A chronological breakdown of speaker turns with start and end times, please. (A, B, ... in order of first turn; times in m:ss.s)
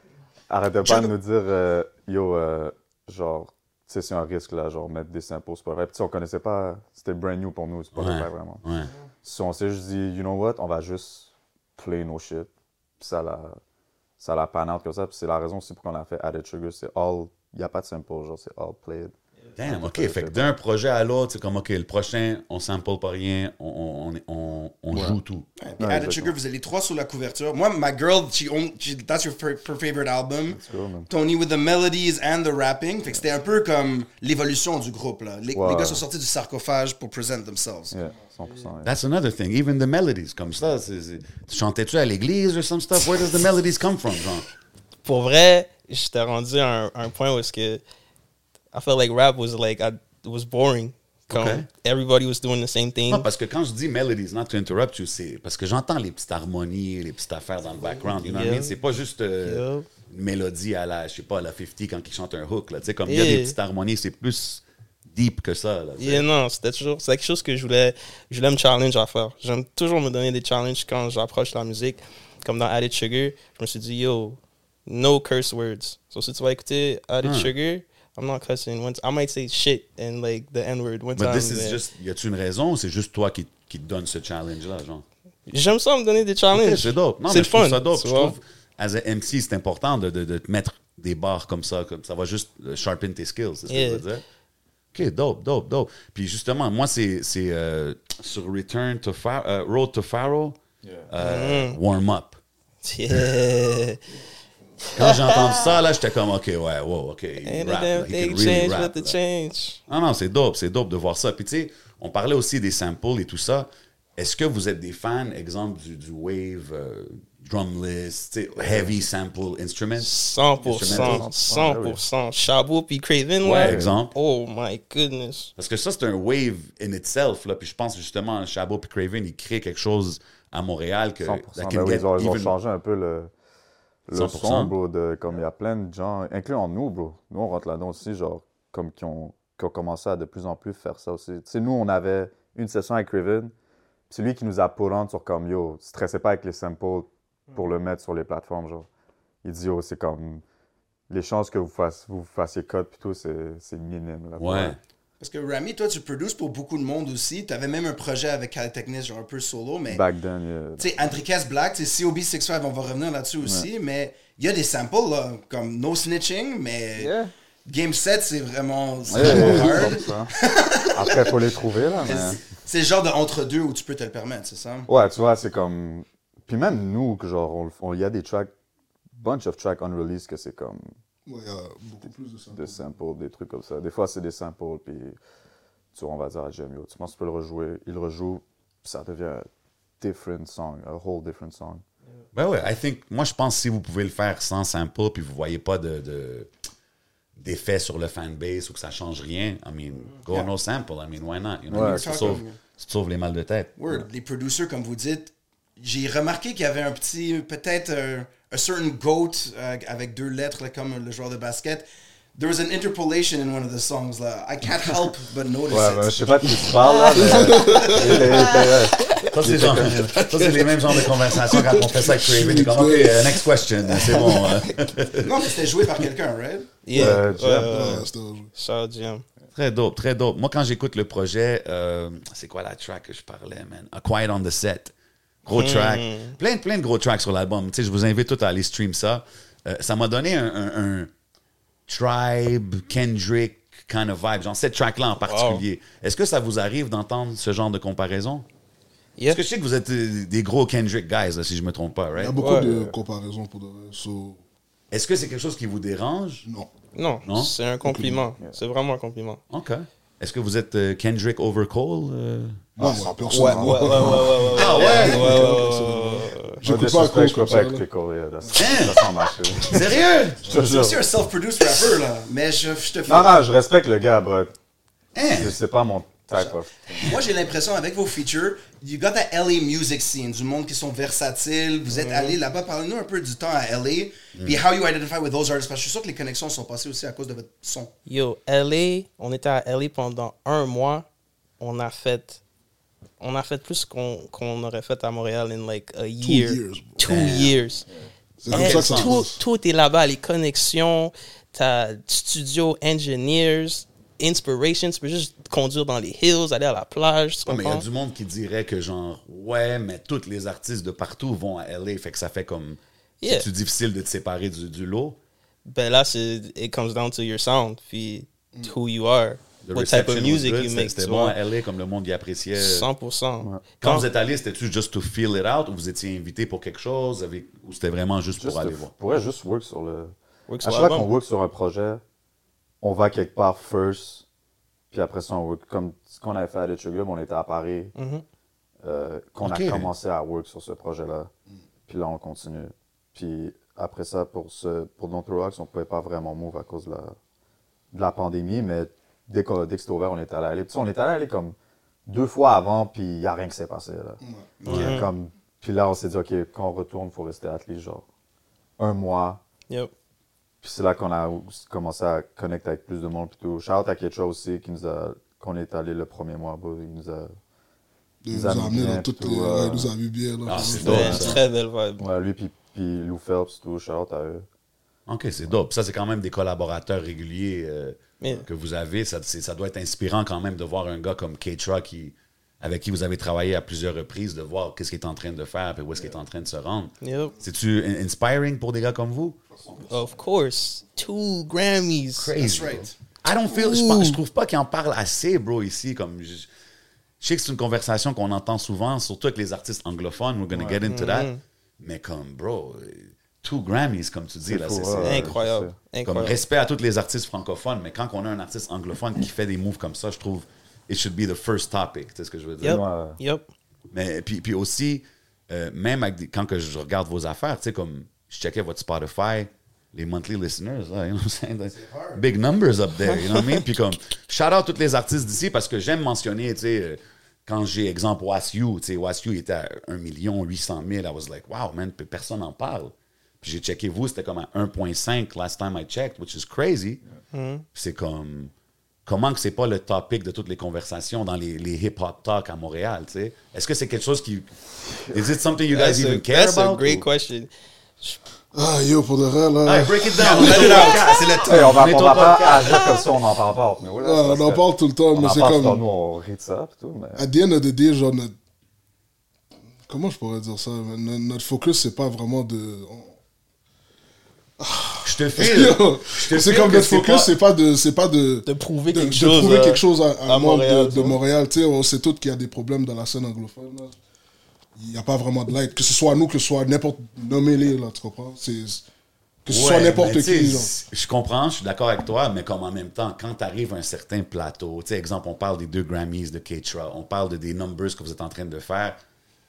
0:00.5-0:08.6 A
0:00.8-0:01.1 B
0:07.9-0:08.9 C
0:09.2-0:13.6 A
0:14.2-0:20.5 A
0:19.6-0:25.5 C
0:24.9-0:25.2 A
0:25.6-0:38.0 B
0:25.8-0:26.3 A
0:30.5-0:31.1 A
0:35.5-0:36.0 A
0:37.9-0:38.9 A
0:38.8-0:44.5 C
0:45.0-0:47.8 D
0:48.7-0:53.3 D
0:51.3-0:51.7 C
0:53.1-1:06.2 C
0:58.0-0:58.7 D
0:59.4-0:59.8 D
1:03.0-1:03.6 D
1:06.0-1:21.8 D
1:17.2-1:17.5 C
1:21.2-1:25.0 C
1:25.5-1:28.3 D
1:26.5-1:34.2 C
1:33.7-1:34.0 D
1:34.9-1:42.4 C
1:41.2-1:41.8 D
1:42.8-1:44.0 D
1:44.8-1:45.7 D
1:44.9-1:49.1 C
1:47.4-1:49.8 D
1:49.9-2:00.1 C
1:58.6-1:59.0 A
2:00.0-2:05.5 D
2:00.6-2:01.3 C
2:00.6-2:02.0 A
2:03.4-2:04.1 C
2:03.6-2:04.0 A
2:05.6-2:12.5 C
2:11.2-2:13.3 A
2:14.1-2:23.5 A
2:14.1-2:14.7 C
2:24.1-2:28.9 A
2:29.4-2:30.4 A
2:31.1-2:34.8 A
2:34.4-2:34.8 C
2:35.2-2:40.0 B
2:39.9-2:41.0 A
2:40.8-2:47.1 B
2:43.4-2:43.7 A
2:47.0-2:47.3 A
2:47.6-2:51.4 B
2:49.1-2:50.3 A
2:49.2-2:49.9 E
2:50.9-2:52.4 A
2:52.0-2:54.9 B
2:54.9-2:58.5 A
2:59.1-3:01.0 A
3:01.2-3:02.8 E
3:02.5-3:05.2 A
3:05.9-3:09.5 A
3:10.0-3:11.8 A
3:12.3-3:16.5 C
3:17.4-3:23.8 C
3:21.7-3:22.2 A
3:21.7-3:22.6 B
3:23.8-3:36.6 B
3:35.7-3:40.3 A
3:37.2-3:38.6 E
3:38.1-3:39.2 D
3:39.3-3:45.5 C
3:40.2-3:43.5 E
3:44.1-3:44.4 E
3:44.3-3:44.6 D
3:45.2-3:46.7 B
3:46.8-3:49.2 D
3:46.9-3:48.1 A
3:46.9-3:48.5 E
3:49.5-3:54.9 C
3:55.4-4:01.1 C
3:55.5-3:56.4 D
4:01.9-4:08.4 C
4:05.2-4:05.6 D
4:09.3-4:12.4 C
4:12.1-4:14.4 E
4:12.4-4:12.7 D
4:12.6-4:12.9 A
4:14.9-4:16.4 C
4:16.4-4:16.7 E
4:16.9-4:19.4 D
4:17.2-4:17.5 C
4:17.8-4:18.3 E
4:19.5-4:22.7 C
4:22.8-4:27.8 E
4:22.8-4:24.2 A
4:23.3-4:26.6 D
4:24.5-4:25.5 C
4:26.6-4:31.0 A
4:28.5-4:28.7 E
4:28.5-4:29.0 C
4:29.6-4:30.4 C
4:30.5-4:33.4 B
4:33.1-4:34.5 A
4:35.1-4:35.6 C
4:35.3-4:37.1 A
4:36.4-4:47.9 B
4:41.9-4:42.4 D
4:44.3-4:44.6 C
4:48.0-4:51.1 D
4:51.6-4:52.4 D
4:53.2-4:57.8 D
4:56.2-4:57.2 E
4:57.0-4:57.6 C
4:58.4-4:59.4 E
4:58.5-4:59.2 C
4:58.5-5:07.8 D
5:07.4-5:15.2 C
5:13.2-5:13.5 D
5:15.6-5:21.3 D
5:19.6-5:22.9 C
5:22.5-5:24.1 D
5:23.8-5:28.9 C
5:28.4-5:32.0 A
5:30.5-5:31.1 D
5:32.8-5:34.2 A
5:34.9-5:37.9 A
5:38.0-5:38.2 D
5:38.8-5:41.3 A
5:39.4-5:39.9 C
5:41.9-5:47.2 A
5:47.9-5:51.5 A
5:52.0-5:54.2 A
5:54.2-5:54.5 E
5:54.6-5:55.0 B
5:54.6-5:54.9 C
5:54.7-5:55.1 D
5:54.7-5:58.0 A
5:58.8-5:59.4 A
6:00.6-6:07.3 A
6:08.2-6:11.3 E
6:08.3-6:09.9 A
6:10.4-6:11.4 C
6:10.7-6:11.4 A
6:10.8-6:12.0 D
6:12.0-6:14.4 A
6:15.1-6:29.4 C
6:27.0-6:27.3 D
6:29.8-6:32.3 D
6:32.2-6:36.5 C
6:32.4-6:32.9 B
6:33.5-6:34.2 D
6:37.2-6:45.4 C
6:40.5-6:40.8 A
6:40.9-6:41.4 D
6:44.5-6:45.7 A
6:45.0-6:46.4 D
6:46.0-6:52.8 C
6:52.6-6:53.5 D
6:52.6-6:53.2 A
6:53.9-7:17.0 C
7:01.7-7:02.2 B
7:03.0-7:03.6 D
7:17.3-7:17.6 D
7:17.7-7:18.5 C
7:19.0-7:24.5 C
7:25.1-7:27.0 C
7:25.7-7:28.2 D
7:28.5-7:30.9 E
7:29.6-7:33.1 C
7:30.2-7:31.9 B
7:31.4-7:37.2 A
7:34.0-7:35.8 E
7:37.2-7:38.3 E
7:39.8-7:43.2 E
7:44.6-7:54.0 E
7:45.0-7:47.3 C
7:48.4-7:51.2 D
7:54.8-7:58.8 E
7:59.4-8:00.7 E
7:59.5-8:09.0 C